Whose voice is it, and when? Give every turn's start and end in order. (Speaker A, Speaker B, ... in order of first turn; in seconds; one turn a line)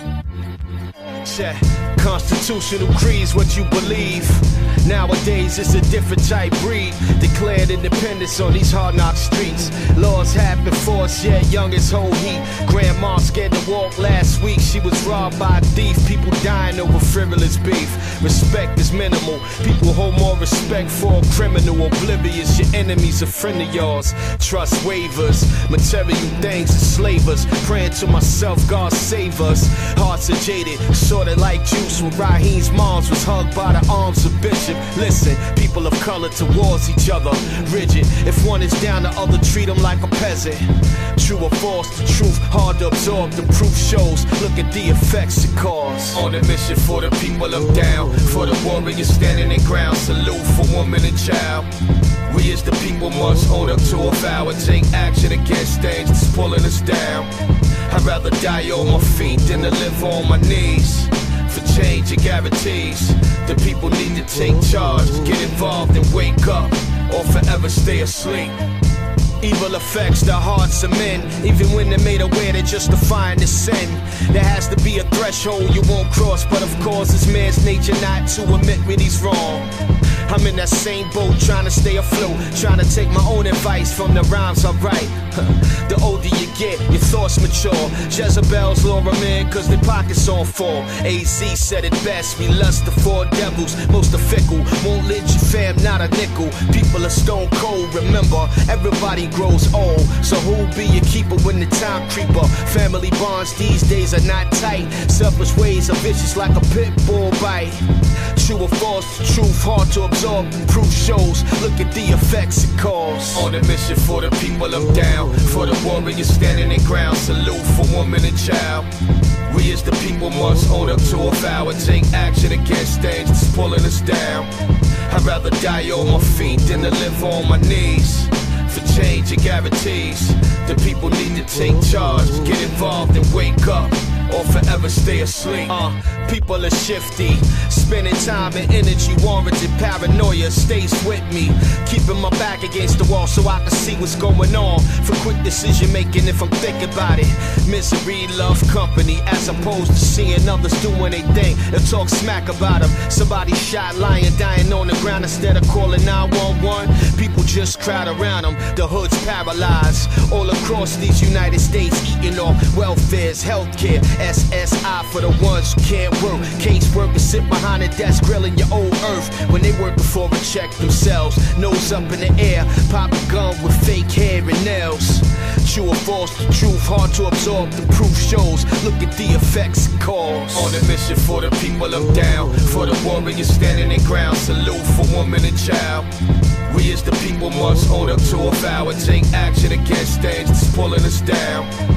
Speaker A: 1.2-51.7
Speaker A: 52.3-57.3
Speaker A: 57.9-68.5
Speaker A: 69.4-79.7
Speaker A: 80.2-107.8
Speaker A: 108.3-118.9
Speaker A: 119.5-124.5
Speaker A: 125.1-186.1
Speaker A: 186.7-191.7